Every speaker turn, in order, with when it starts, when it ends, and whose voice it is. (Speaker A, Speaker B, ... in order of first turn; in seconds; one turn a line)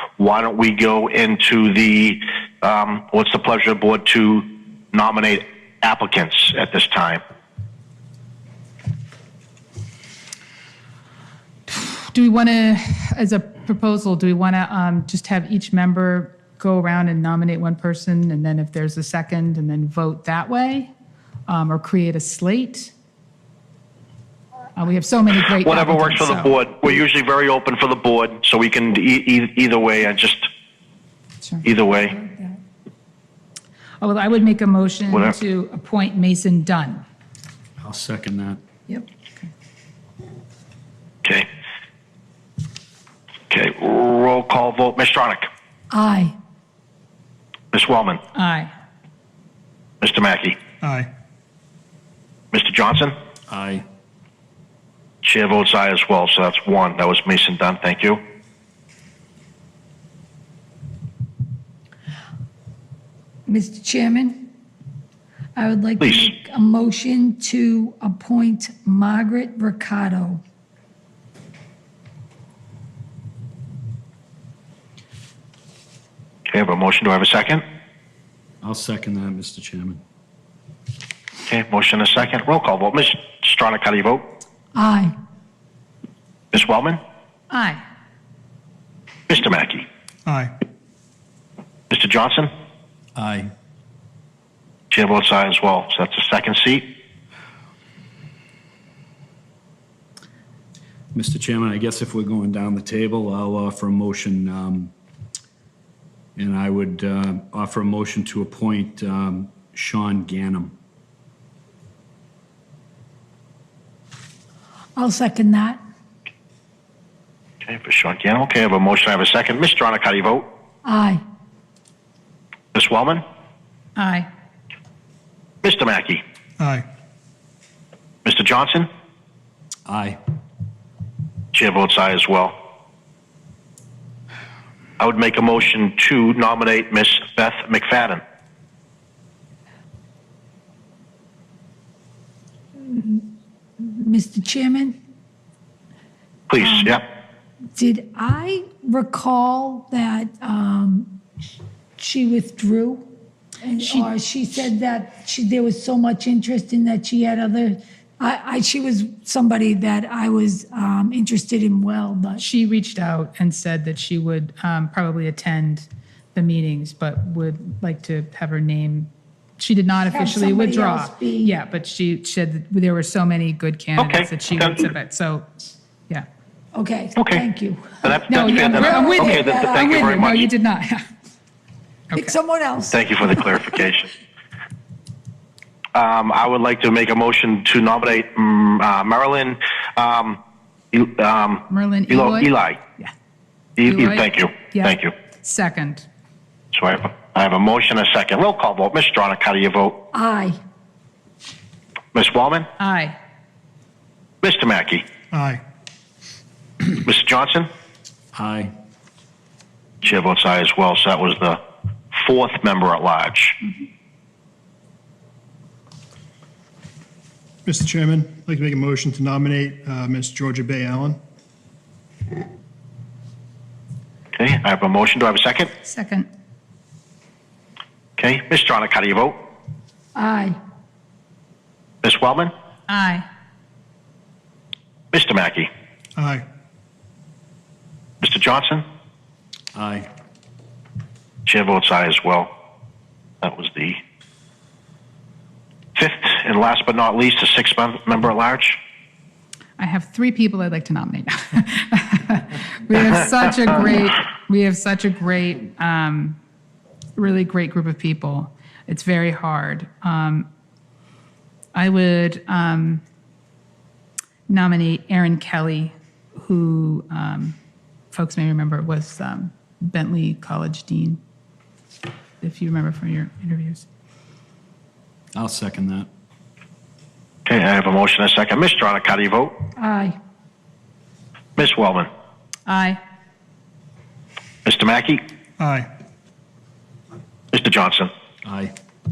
Speaker A: 0.2-7.2
Speaker B: 11.7-20.9
Speaker B: 21.5-22.9
Speaker B: 24.8-26.5
Speaker A: 25.3-30.5
Speaker A: 31.6-32.1
Speaker C: 32.0-32.6
Speaker B: 34.0-37.0
Speaker D: 37.8-38.6
Speaker A: 43.5-45.5
Speaker C: 45.9-46.3
Speaker A: 47.7-48.2
Speaker B: 48.3-48.7
Speaker A: 50.0-50.6
Speaker E: 50.8-51.1
Speaker A: 52.5-53.1
Speaker D: 53.5-53.8
Speaker A: 55.2-58.2
Speaker C: 63.5-64.5
Speaker C: 65.5-70.4
Speaker A: 66.0-66.3
Speaker A: 76.5-77.6
Speaker D: 78.6-80.0
Speaker A: 81.5-84.2
Speaker C: 84.7-85.1
Speaker A: 86.5-87.0
Speaker B: 87.5-87.8
Speaker A: 89.3-89.8
Speaker E: 90.2-90.5
Speaker A: 91.9-92.5
Speaker D: 93.1-93.5
Speaker A: 94.9-96.9
Speaker D: 101.1-104.9
Speaker D: 106.3-110.7
Speaker C: 115.0-115.8
Speaker A: 117.6-120.5
Speaker C: 120.8-121.2
Speaker A: 122.7-123.2
Speaker B: 124.0-124.3
Speaker A: 125.6-126.2
Speaker E: 126.6-126.8
Speaker A: 128.2-128.9
Speaker D: 129.8-130.2
Speaker A: 131.5-132.5
Speaker A: 135.0-138.2
Speaker C: 142.8-143.3
Speaker C: 143.8-145.0
Speaker A: 146.5-147.0
Speaker C: 146.6-147.0
Speaker C: 147.8-151.2
Speaker C: 152.0-153.1
Speaker C: 153.6-162.4
Speaker B: 153.8-154.1
Speaker B: 162.4-175.5
Speaker C: 170.0-171.5
Speaker A: 174.0-174.9
Speaker C: 176.7-180.0
Speaker A: 177.2-177.5
Speaker A: 178.0-180.5
Speaker B: 178.3-181.0
Speaker C: 182.1-183.2
Speaker A: 182.9-184.1
Speaker A: 185.9-190.4
Speaker A: 190.9-192.8
Speaker B: 191.7-193.1
Speaker A: 193.8-195.1
Speaker B: 193.8-196.1
Speaker A: 196.7-200.0
Speaker C: 200.1-200.6
Speaker A: 202.1-202.7
Speaker B: 202.8-203.2
Speaker A: 204.4-205.0
Speaker E: 205.3-205.6
Speaker A: 207.0-207.7
Speaker D: 208.3-208.7
Speaker A: 210.0-211.6
Speaker A: 212.1-213.6
Speaker E: 217.7-221.2
Speaker A: 224.3-225.7
Speaker B: 225.8-226.3
Speaker A: 228.2-229.4
Speaker C: 230.1-230.6
Speaker A: 232.0-232.5
Speaker B: 232.9-233.2
Speaker A: 235.1-235.7
Speaker E: 236.2-236.4
Speaker A: 238.2-238.8
Speaker D: 239.7-240.1
Speaker A: 241.4-242.5
Speaker A: 243.4-244.0
Speaker A: 245.9-248.8
Speaker B: 249.8-256.4
Speaker B: 257.1-260.5
Speaker B: 261.7-263.0
Speaker B: 264.5-267.6
Speaker B: 268.1-271.2
Speaker B: 272.4-273.9
Speaker D: 275.3-276.1
Speaker A: 277.4-279.5
Speaker C: 279.8-280.2
Speaker A: 281.6-282.1
Speaker B: 282.6-283.0
Speaker A: 284.6-285.2
Speaker E: 285.6-285.9
Speaker A: 287.5-288.1
Speaker D: 288.4-288.7